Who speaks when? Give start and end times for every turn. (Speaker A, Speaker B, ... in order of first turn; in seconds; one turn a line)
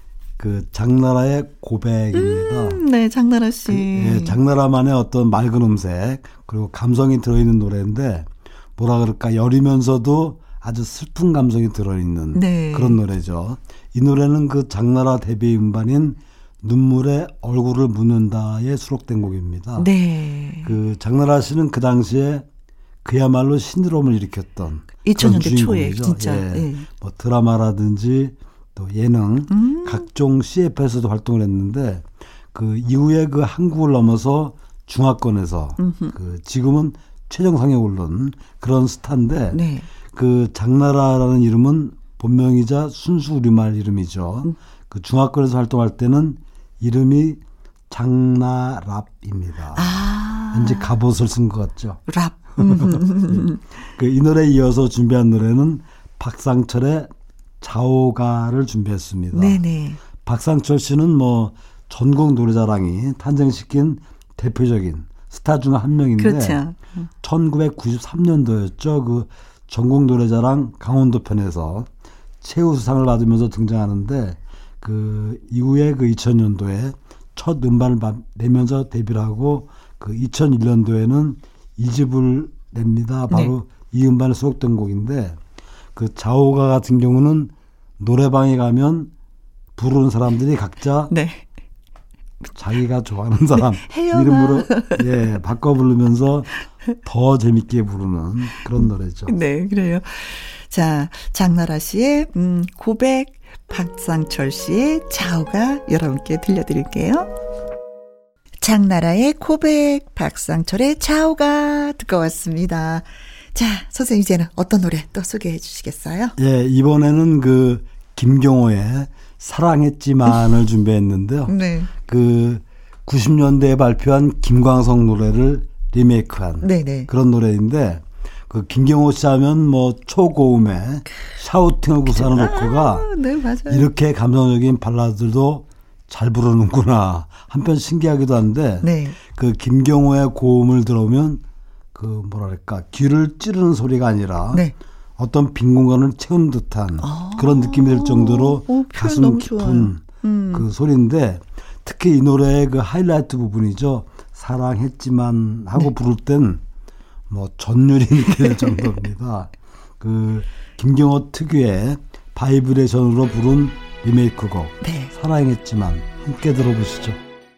Speaker A: 0.4-2.8
Speaker B: 2.1-4.4
Speaker A: 3.7-19.9
Speaker B: 12.3-13.0
Speaker B: 19.8-20.8
Speaker A: 20.6-22.4
Speaker A: 23.0-39.6
Speaker B: 25.1-26.9
Speaker B: 29.5-30.1
Speaker B: 35.8-36.1
Speaker B: 39.5-39.9
Speaker A: 40.1-47.4
Speaker A: 47.9-52.0
Speaker B: 49.8-50.9
Speaker B: 52.1-53.6
Speaker A: 52.6-57.1
Speaker A: 57.6-59.6
Speaker B: 59.3-60.0
Speaker A: 60.2-66.6
Speaker B: 66.2-67.1
Speaker A: 67.2-71.9
Speaker A: 72.4-85.4
Speaker A: 86.0-89.1
Speaker A: 89.8-91.1
Speaker B: 91.1-91.5
Speaker A: 92.6-99.3
Speaker B: 93.7-95.1
Speaker B: 98.8-107.3
Speaker B: 108.6-116.3
Speaker A: 116.4-133.1
Speaker B: 121.5-121.9
Speaker B: 126.6-127.1
Speaker B: 132.1-133.9
Speaker A: 133.7-141.4
Speaker B: 138.8-139.2
Speaker A: 141.9-144.7
Speaker A: 145.2-156.6
Speaker B: 147.0-150.7
Speaker A: 157.3-167.2
Speaker B: 158.4-158.9
Speaker B: 164.8-165.1